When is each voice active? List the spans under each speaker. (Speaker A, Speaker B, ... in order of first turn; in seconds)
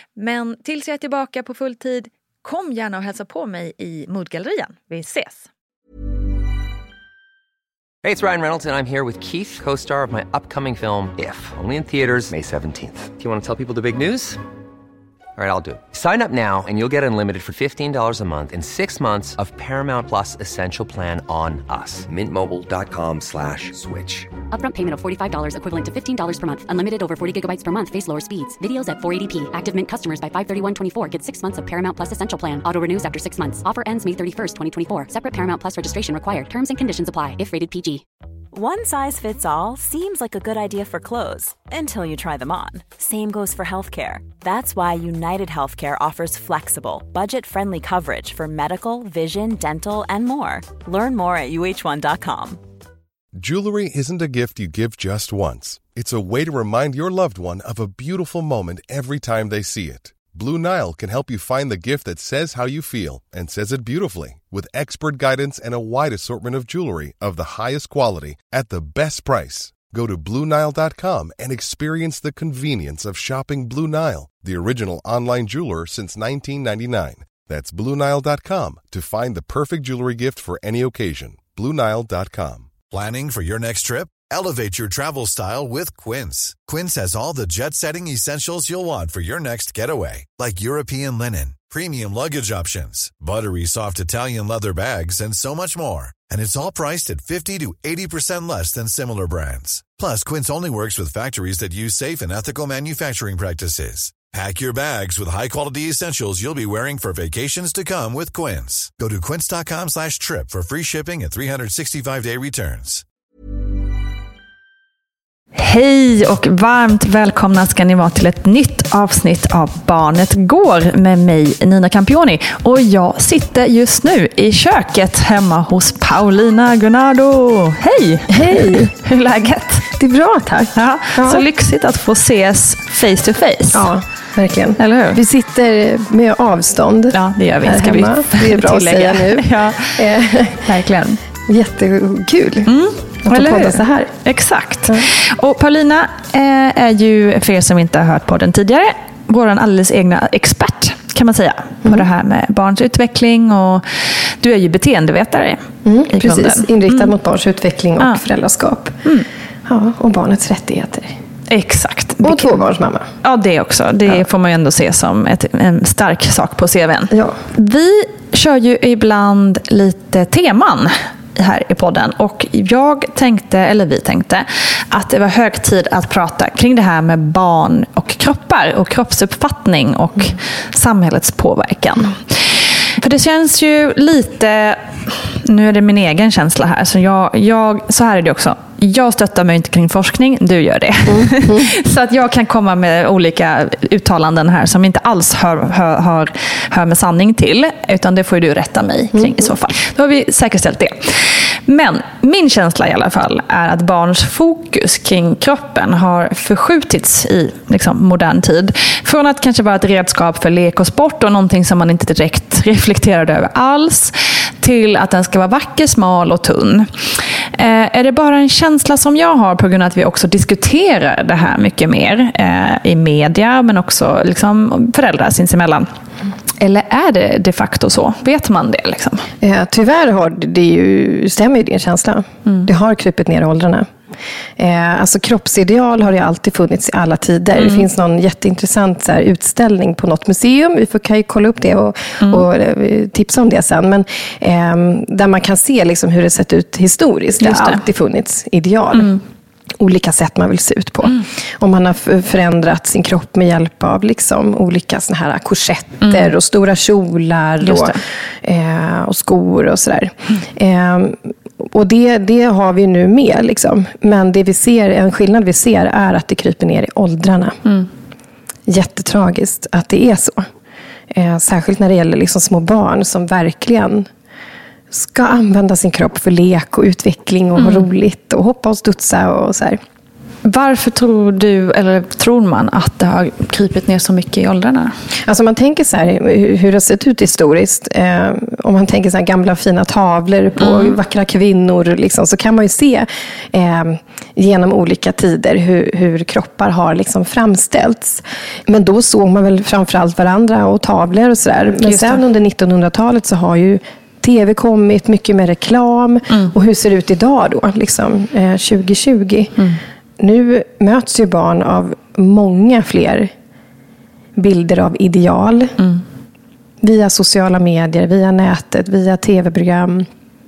Speaker A: 0.1-5.5, 115.5-129.9, 130.7-133.8, 134.8-135.2, 137.1-139.9, 140.6-141.2, 142.7-157.1, 161.5-162.5, 163.2-216.9, 217.5-225.9, 226.6-229.2, 247.4-247.8, 257.6-258.0, 277.6-277.9, 280.4-284.9, 290.6-290.9, 301.8-302.2
Speaker B: 8.0-14.4, 15.3-24.4
Speaker C: 24.5-38.0
Speaker D: 38.5-52.6
Speaker E: 53.4-82.7
Speaker F: 82.9-113.0
Speaker G: 128.3-128.9, 130.0-131.4, 133.7-140.7, 141.4-142.7, 143.2-144.1, 155.8-159.0, 159.7-161.2, 162.2-163.1, 167.1-167.4, 191.1-191.7, 199.1-199.5, 229.4-233.9, 234.6-249.2, 249.8-267.6, 268.7-270.5, 271.1-274.1, 274.9-279.8, 285.3-309.5, 310.2-313.3, 314.4-315.8, 316.8-320.1